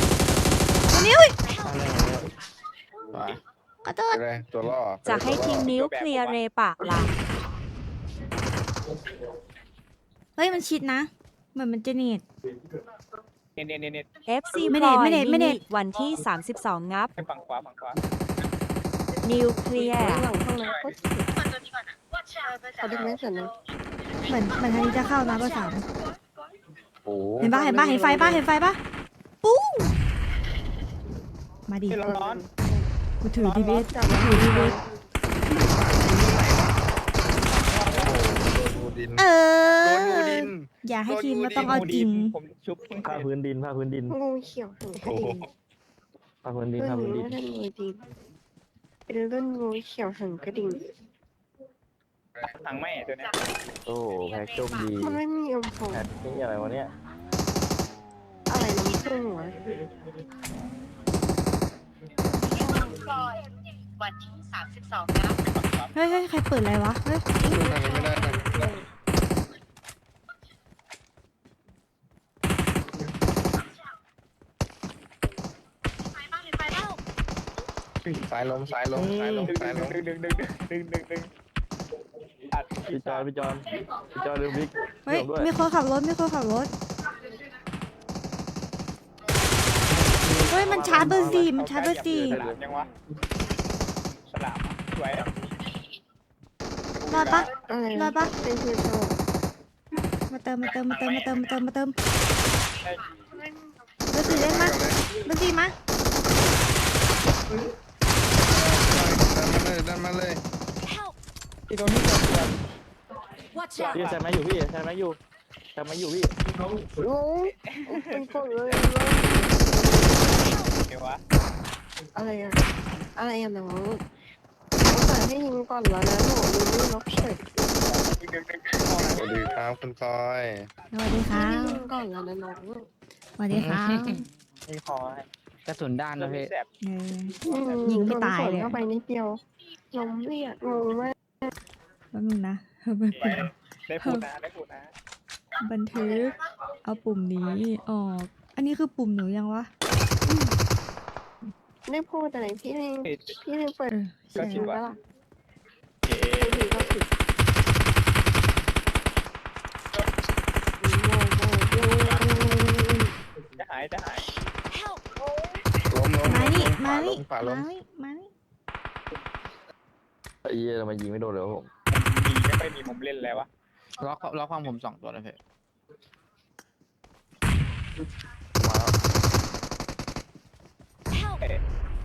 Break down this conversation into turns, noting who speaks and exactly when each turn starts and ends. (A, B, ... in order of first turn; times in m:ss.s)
0:00.9-0:01.4 A
0:01.6-0:02.3 B
0:03.1-0:03.4 B
0:03.8-0:04.2 A
0:04.1-0:05.7 C
0:05.0-0:07.1 D
0:05.5-0:06.4 E
0:10.4-0:12.2 A
0:13.6-0:14.1 E
0:14.2-0:17.1 D
0:14.7-0:15.6 A
0:17.2-0:18.0 E
0:19.2-0:20.3 D
0:19.8-0:21.3 F
0:22.8-0:23.5 F
0:24.3-0:25.8 A
0:27.0-0:27.5 C
0:27.4-0:28.8 A
0:27.4-0:28.4 F
0:29.4-0:29.9 A
0:31.7-0:32.0 A
0:31.9-0:32.4 E
0:32.0-0:32.9 F
0:33.2-0:34.8 A
0:33.4-0:33.8 E
0:33.7-0:34.8 F
0:35.7-0:36.7 C
0:37.5-0:38.2 E
0:37.9-0:39.3 C
0:39.2-0:42.3 A
0:39.8-0:41.9 C
0:41.6-0:43.3 E
0:43.0-0:44.1 G
0:44.1-0:45.5 F
0:45.0-0:45.4 C
0:46.4-0:47.4 G
0:46.8-0:48.0 F
0:49.1-0:50.8 F
0:52.4-0:53.3 E
0:53.8-0:55.2 G
0:55.0-0:56.1 F
0:55.9-0:56.9 G
0:58.5-0:59.6 F
1:05.9-1:07.2 A
1:07.4-1:08.8 C
1:07.4-1:08.8 F
1:18.0-1:20.0 C
1:18.9-1:19.5 G
1:19.5-1:21.3 E
1:22.5-1:23.3 E
1:22.9-1:25.5 G
1:25.0-1:26.7 A
1:30.2-1:31.5 G
1:30.5-1:32.4 A
1:30.9-1:32.9 E
1:32.1-1:32.6 G
1:34.2-1:35.3 E
1:36.9-1:37.7 E
1:37.1-1:38.3 A
1:37.7-1:39.2 F
1:40.3-1:42.0 A
1:43.3-1:43.6 F
1:44.1-1:45.7 A
1:44.2-1:45.0 C
1:48.4-1:50.4 C
1:51.7-1:52.6 E
1:53.6-1:54.2 E
1:53.9-1:55.2 G
1:55.7-1:56.3 G
1:57.0-2:00.3 F
1:57.7-1:58.8 E
2:00.4-2:01.2 E
2:02.1-2:02.6 F
2:03.2-2:04.0 F
2:04.9-2:07.4 F
2:07.8-2:09.5 E
2:09.1-2:10.7 C
2:10.9-2:11.9 A
2:11.3-2:12.9 F
2:13.4-2:14.3 A
2:13.6-2:16.5 B
2:16.2-2:16.7 E
2:16.8-2:18.8 A
2:17.4-2:19.4 F
2:17.5-2:18.0 E
2:19.9-2:21.5 F
2:22.1-2:23.5 A
2:23.2-2:24.9 E
2:25.6-2:29.7 A
2:30.3-2:30.5 F
2:31.9-2:35.0 F
2:33.0-2:33.4 E
2:33.9-2:34.7 A
2:34.4-2:34.8 E
2:36.0-2:36.9 E
2:36.4-2:37.1 F
2:40.8-2:43.1 F
2:43.6-2:44.3 E
2:45.9-2:47.7 C
2:46.2-2:48.3 A
2:50.4-2:51.7 G
2:51.9-2:53.5 E
2:54.0-2:55.4 B
2:58.6-2:58.9 G